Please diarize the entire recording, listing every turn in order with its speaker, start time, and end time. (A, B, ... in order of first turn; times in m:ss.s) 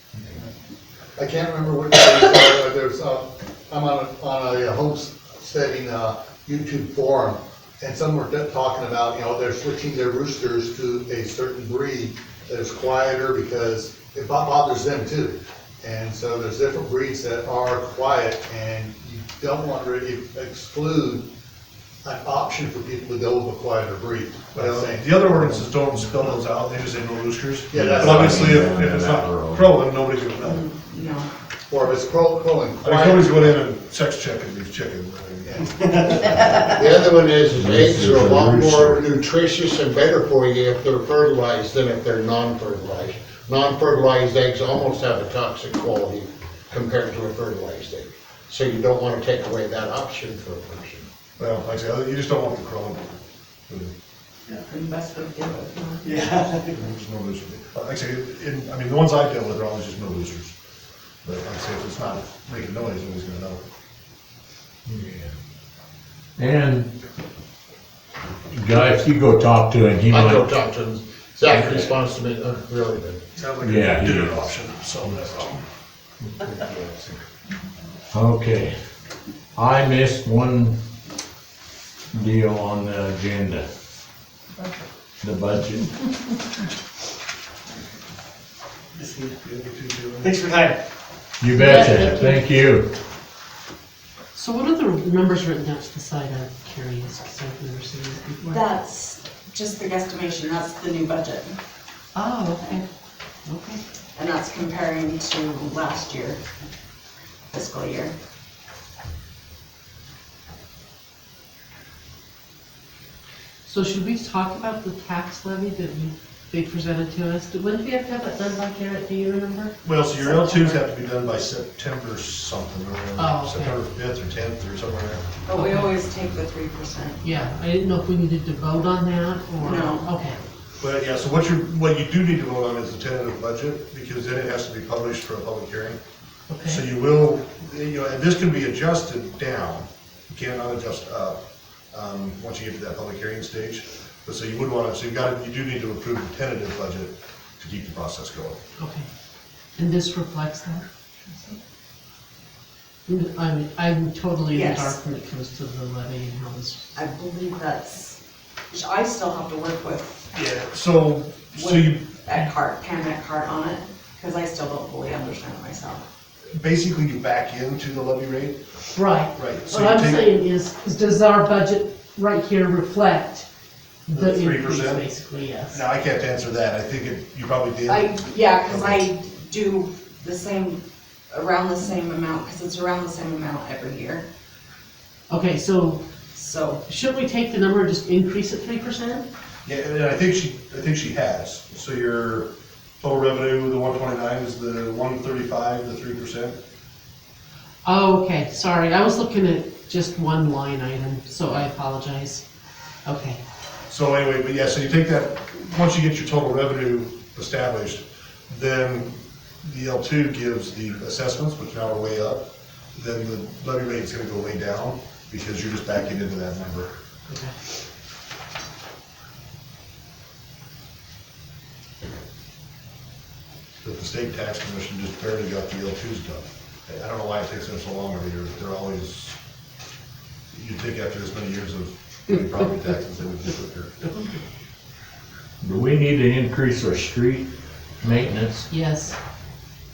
0:01.2-0:21.3 A
0:22.0-0:25.7 A
0:24.5-0:30.6 B
0:27.7-0:28.8 A
0:27.8-0:29.7 C
0:30.4-0:31.3 D
0:31.7-0:33.6 A
0:32.8-0:35.6 B
0:35.5-0:36.4 A
0:36.7-0:51.1 E
0:37.5-0:39.0 C
0:51.4-0:53.2 B
0:53.7-0:53.9 B
0:54.7-0:56.2 D
0:56.0-0:56.8 F
0:56.7-1:00.5 B
1:01.2-1:03.6 B
1:04.9-1:05.3 C
1:06.4-1:06.9 C
1:08.5-1:10.5 C
1:10.1-1:13.2 E
1:11.4-1:11.9 C
1:13.4-1:15.6 B
1:13.6-1:14.4 C
1:16.4-1:16.9 C
1:18.1-1:18.8 C
1:19.6-1:20.8 C
1:22.1-1:23.7 C
1:25.2-1:25.9 C
1:29.0-1:30.8 F
1:31.4-1:32.9 C
1:31.6-1:32.5 G
1:34.3-1:38.8 G
1:38.4-1:41.6 D
1:42.2-1:42.8 G
1:43.5-1:43.8 G
1:44.2-1:46.4 D
1:47.5-1:48.1 D
1:53.7-1:59.8 G
1:59.8-2:05.2 B
2:00.2-2:00.8 D
2:03.2-2:03.8 G
2:05.5-2:07.2 D
2:05.5-2:06.0 G
2:07.2-2:10.4 G
2:09.6-2:10.1 D
2:10.8-2:16.0 B
2:16.5-2:16.8 G
2:16.6-2:21.4 B
2:21.9-2:28.6 B
2:28.8-2:29.1 G
2:29.8-2:30.8 G
2:33.1-2:36.9 G
2:34.5-2:35.0 D
2:36.9-2:38.2 D
2:38.7-2:40.2 D
2:40.3-2:42.0 B
2:41.6-2:46.0 D
2:46.6-2:48.6 B
2:49.0-2:53.5 G
2:49.3-2:50.3 B
2:54.1-2:55.8 G
2:54.1-2:55.1 B
2:55.7-2:59.1 B
2:58.1-3:04.3 D
3:05.3-3:06.0 G
3:06.4-3:06.8 D
3:06.9-3:09.3 G
3:09.6-3:12.5 B
3:13.0-3:16.6 B
3:17.8-3:22.4 G
3:23.0-3:23.4 G
3:23.9-3:36.9 B
3:43.8-3:49.4 B
3:50.5-3:54.0 B
3:55.6-3:57.5 C
3:58.0-3:58.7 C
3:58.7-3:59.2 G